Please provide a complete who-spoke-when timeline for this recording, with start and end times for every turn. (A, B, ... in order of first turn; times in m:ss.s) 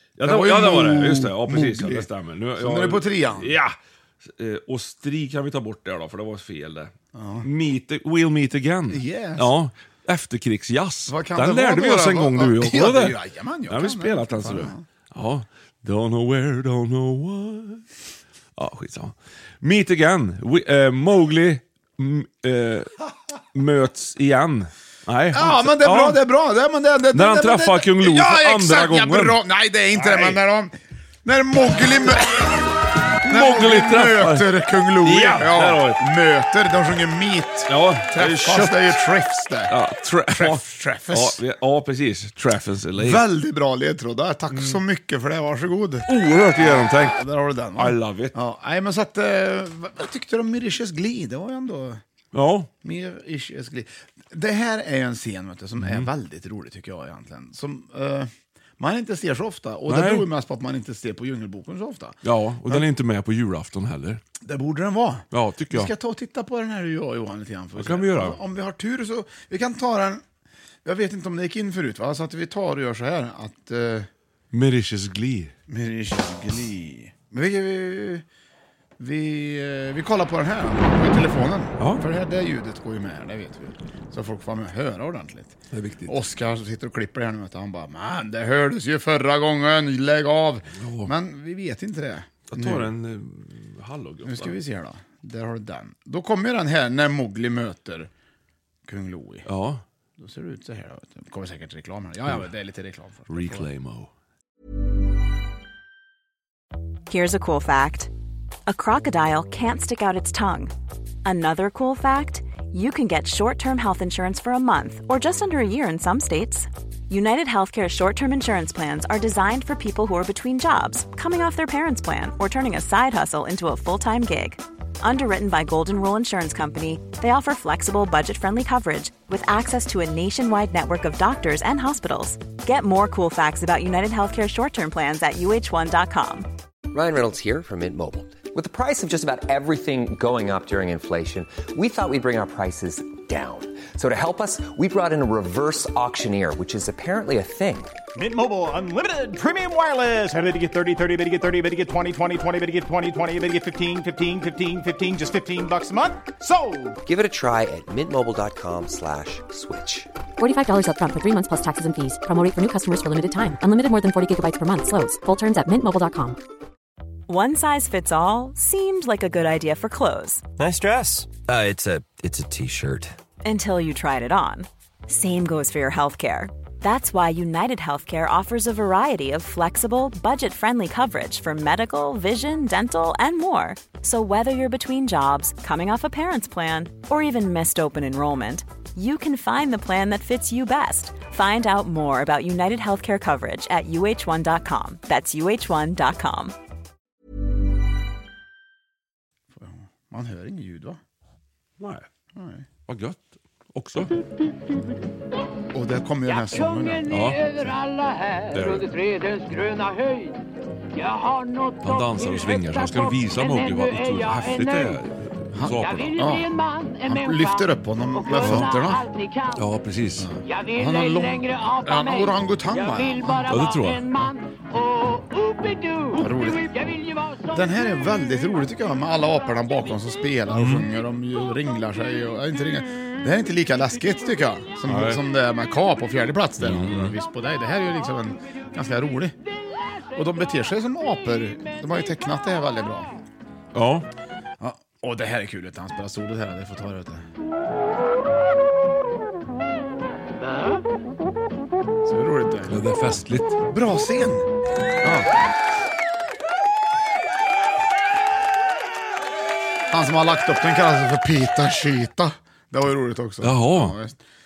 0:00.2-0:13.2 A
0:00.2-0:03.6 B
0:07.1-0:07.5 B
0:08.9-0:09.5 B
0:11.1-0:14.8 B
0:13.7-0:17.8 A
0:18.6-0:23.0 A
0:23.5-0:26.2 A
0:25.3-0:32.7 B
0:27.1-0:29.4 A
0:30.0-0:30.4 A
0:33.2-0:34.5 A
0:33.3-0:39.7 B
0:35.0-0:36.0 A
0:37.7-0:39.0 A
0:39.7-0:43.2 A
0:40.3-0:41.4 B
0:43.0-0:52.0 B
0:44.5-0:44.8 A
0:46.1-0:47.2 A
0:47.8-0:48.4 A
0:52.3-0:52.7 A
0:52.8-1:02.8 B
0:55.8-0:56.1 A
0:59.9-1:00.3 A
1:02.2-1:04.2 A
1:04.4-1:10.2 B
1:05.3-1:05.9 A
1:07.8-1:08.4 A
1:10.8-1:14.1 B
1:14.5-1:15.5 A
1:15.7-1:18.2 B
1:19.0-1:32.9 B
1:25.7-1:26.2 A
1:30.8-1:31.1 A
1:32.5-1:34.6 A
1:34.2-1:38.1 B
1:38.9-1:39.5 B
1:39.5-1:39.8 A
1:40.2-1:43.7 B
1:43.3-1:44.1 A
1:47.1-1:48.1 C
1:48.7-1:50.7 C
1:51.2-2:16.5 C
2:16.9-2:27.9 D
2:28.2-2:37.0 E
2:37.1-2:40.1 D
2:40.4-2:46.4 F
2:47.3-2:50.4 C
2:50.6-2:53.2 G
2:53.4-3:16.5 C
3:19.6-3:21.0 B
3:21.8-3:22.1 A
3:22.4-3:22.6 B
3:22.9-3:23.2 A
3:23.7-3:24.2 A
3:25.7-3:27.8 B
3:27.1-3:27.5 A
3:28.5-3:29.0 A
3:31.8-3:36.2 A
3:35.5-3:39.1 B
3:38.4-3:38.7 A
3:39.6-3:40.3 A
3:40.2-3:43.6 B
3:43.5-3:44.3 A
3:46.1-3:46.7 B
3:47.5-3:59.4 B
3:50.5-3:50.9 A
3:54.9-3:55.2 A
3:56.6-3:57.2 A
4:00.2-4:03.3 B
4:03.7-4:04.1 A
4:04.6-4:07.3 B
4:12.1-4:12.7 B
4:12.7-4:13.6 A
4:13.7-4:14.5 B
4:15.0-4:15.3 B
4:19.9-4:24.2 B
4:23.4-4:24.0 A